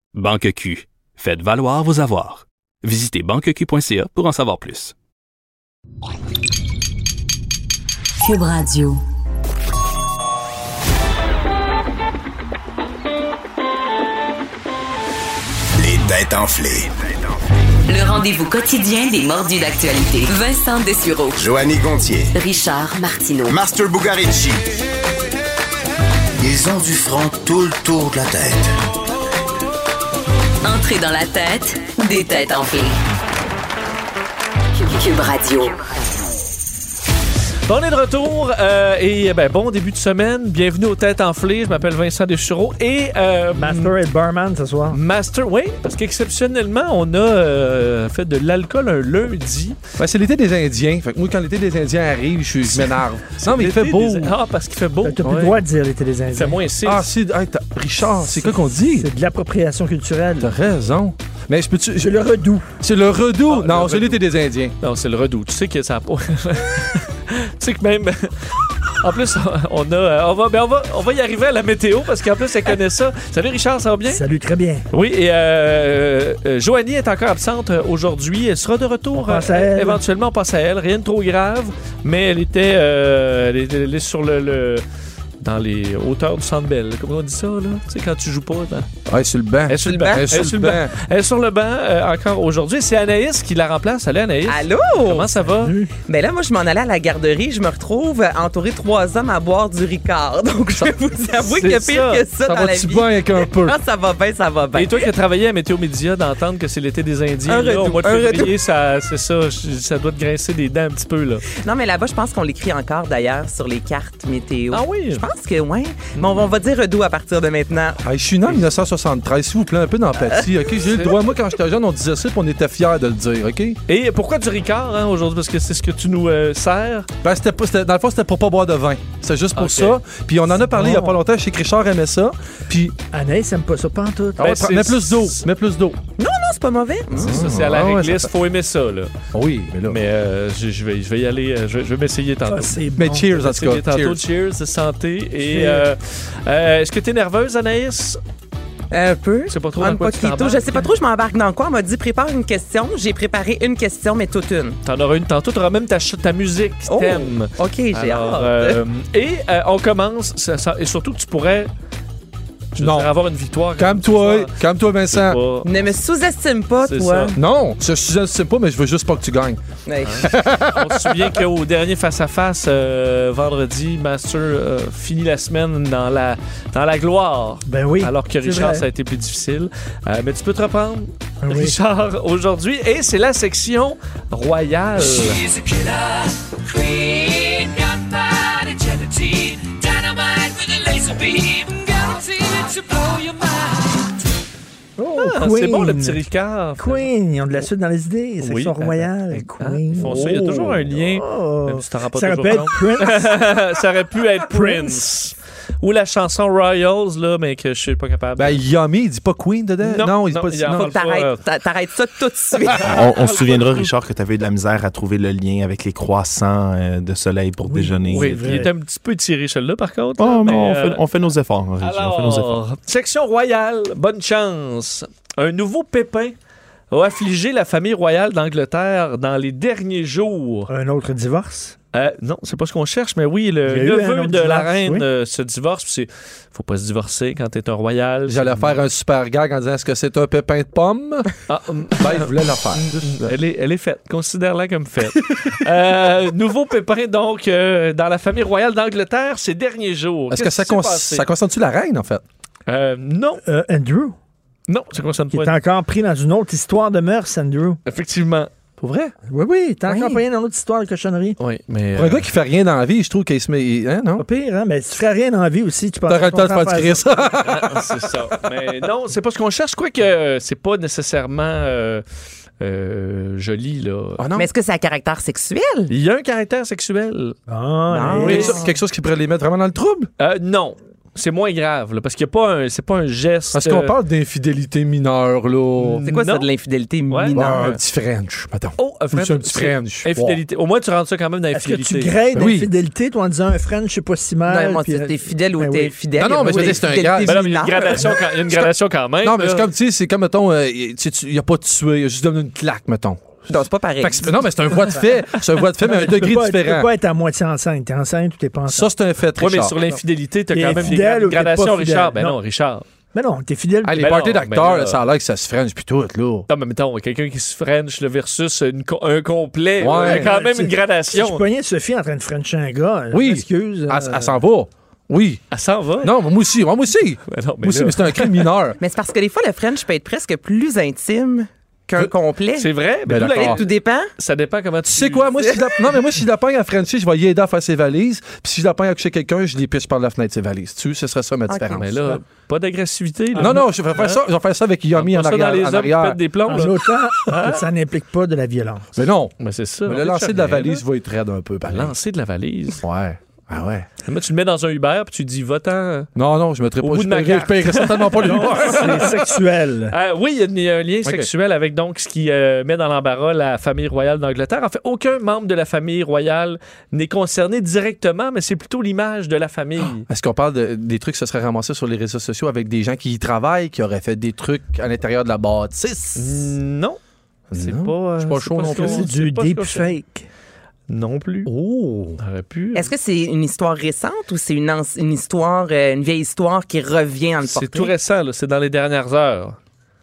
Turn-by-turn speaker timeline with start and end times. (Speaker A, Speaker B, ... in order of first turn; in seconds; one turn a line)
Speaker A: 0.1-4.9
Speaker B: 8.2-9.0
Speaker C: 15.8-17.0
Speaker B: 17.9-21.4
Speaker C: 21.4-22.3
Speaker B: 22.4-23.6
Speaker C: 23.5-24.6
Speaker C: 26.4-28.7
Speaker B: 30.6-33.0
Speaker B: 34.8-35.8
Speaker D: 37.7-44.0
Speaker E: 43.5-45.0
Speaker D: 44.9-49.8
Speaker F: 50.0-54.4
Speaker D: 52.7-55.6
Speaker E: 55.0-56.6
Speaker D: 56.3-57.1
Speaker F: 56.9-59.1
Speaker E: 58.4-60.5
Speaker F: 60.4-62.2
Speaker E: 62.0-62.7
Speaker F: 62.8-64.8
Speaker D: 63.5-64.2
Speaker D: 64.8-74.2
Speaker E: 74.1-74.9
Speaker D: 74.9-84.8
Speaker E: 79.1-80.0
Speaker D: 85.4-88.9
Speaker F: 89.1-91.0
Speaker D: 89.7-95.8
Speaker G: 89.9-90.3
Speaker G: 94.5-95.5
Speaker E: 95.6-95.9
Speaker G: 96.1-105.0
Speaker D: 101.4-102.3
Speaker F: 102.5-103.8
Speaker D: 104.7-111.5
Speaker G: 107.5-108.5
Speaker G: 111.6-118.0
Speaker D: 114.7-115.2
Speaker D: 116.2-116.4
Speaker F: 118.0-123.8
Speaker D: 120.8-121.3
Speaker D: 123.9-127.1
Speaker F: 127.2-133.0
Speaker D: 129.6-130.0
Speaker E: 130.5-131.2
Speaker E: 133.1-134.6
Speaker D: 134.4-135.4
Speaker F: 134.4-136.0
Speaker G: 136.2-137.3
Speaker F: 137.1-138.3
Speaker D: 137.2-139.1
Speaker F: 139.3-140.0
Speaker D: 139.8-148.2
Speaker E: 142.5-143.3
Speaker F: 142.9-144.2
Speaker G: 148.9-154.8
Speaker D: 149.5-150.9
Speaker D: 154.8-161.7
Speaker G: 156.9-158.8
Speaker D: 162.8-165.9
Speaker F: 162.8-163.1
Speaker F: 163.8-165.4
Speaker G: 165.6-167.4
Speaker D: 166.8-167.4
Speaker F: 167.3-169.6
Speaker G: 169.9-170.4
Speaker D: 170.0-185.5
Speaker F: 170.2-171.4
Speaker E: 177.7-178.8
Speaker E: 181.4-181.8
Speaker E: 195.0-196.2
Speaker D: 195.2-197.7
Speaker E: 196.8-203.5
Speaker D: 198.4-208.6
Speaker E: 204.4-205.1
Speaker F: 208.4-210.9
Speaker D: 209.8-211.4
Speaker G: 210.7-212.9
Speaker D: 212.8-213.9
Speaker H: 212.8-218.5
Speaker E: 217.6-218.7
Speaker D: 218.1-221.0
Speaker H: 220.2-222.6
Speaker D: 221.8-226.3
Speaker D: 226.9-230.7
Speaker E: 230.7-231.8
Speaker D: 231.9-238.8
Speaker E: 233.7-235.1
Speaker F: 238.3-241.3
Speaker D: 241.5-251.3
Speaker F: 242.0-243.3
Speaker F: 250.3-252.2
Speaker D: 252.7-253.4
Speaker E: 253.4-254.2
Speaker D: 254.7-255.5
Speaker E: 255.3-257.8
Speaker D: 257.9-258.5
Speaker F: 258.8-259.1
Speaker E: 259.3-261.4
Speaker G: 259.9-260.2
Speaker D: 261.4-262.3
Speaker F: 261.9-264.2
Speaker E: 264.2-267.2
Speaker F: 266.1-268.0
Speaker D: 267.4-272.0
Speaker D: 272.6-274.2
Speaker F: 274.2-274.5
Speaker G: 274.4-275.9
Speaker D: 275.9-277.4
Speaker E: 277.5-278.6
Speaker G: 277.9-278.7
Speaker F: 278.0-280.1
Speaker D: 278.1-278.5
Speaker D: 280.2-283.9
Speaker F: 283.5-286.1
Speaker D: 285.8-286.5
Speaker G: 286.1-287.8
Speaker D: 287.1-287.6
Speaker F: 287.3-290.4
Speaker D: 288.8-292.2
Speaker E: 291.5-296.8
Speaker F: 292.3-292.7
Speaker G: 294.4-298.2
Speaker F: 296.2-303.4
Speaker D: 297.2-299.7
Speaker G: 303.5-304.4
Speaker F: 304.0-306.9
Speaker E: 305.6-308.9
Speaker F: 308.7-309.8
Speaker D: 309.4-312.9
Speaker E: 310.5-312.4
Speaker E: 313.1-314.1
Speaker F: 313.8-316.5
Speaker D: 314.0-315.0
Speaker D: 316.5-321.4
Speaker F: 319.8-320.4
Speaker E: 319.9-324.4
Speaker F: 323.1-325.4
Speaker D: 325.5-326.1
Speaker F: 326.0-328.8
Speaker D: 327.3-328.5
Speaker G: 328.8-334.1
Speaker D: 332.6-335.3
Speaker F: 333.1-333.6
Speaker F: 334.9-342.1
Speaker G: 335.4-335.9
Speaker G: 341.5-341.9
Speaker D: 341.7-344.2
Speaker E: 343.4-343.6
Speaker F: 343.4-346.2
Speaker D: 344.9-347.6
Speaker E: 346.5-348.9
Speaker F: 349.0-351.9
Speaker D: 349.4-350.8
Speaker D: 351.7-352.8
Speaker F: 352.8-353.9
Speaker D: 354.0-356.1
Speaker F: 356.1-359.3
Speaker D: 356.8-359.2
Speaker E: 358.2-359.9
Speaker D: 359.9-370.1
Speaker F: 370.1-376.4
Speaker D: 376.2-377.0
Speaker F: 377.5-379.1
Speaker D: 377.6-379.9
Speaker E: 378.6-380.3
Speaker D: 380.9-381.5
Speaker F: 381.5-382.2
Speaker D: 382.2-382.9
Speaker G: 382.8-387.9
Speaker D: 387.4-389.6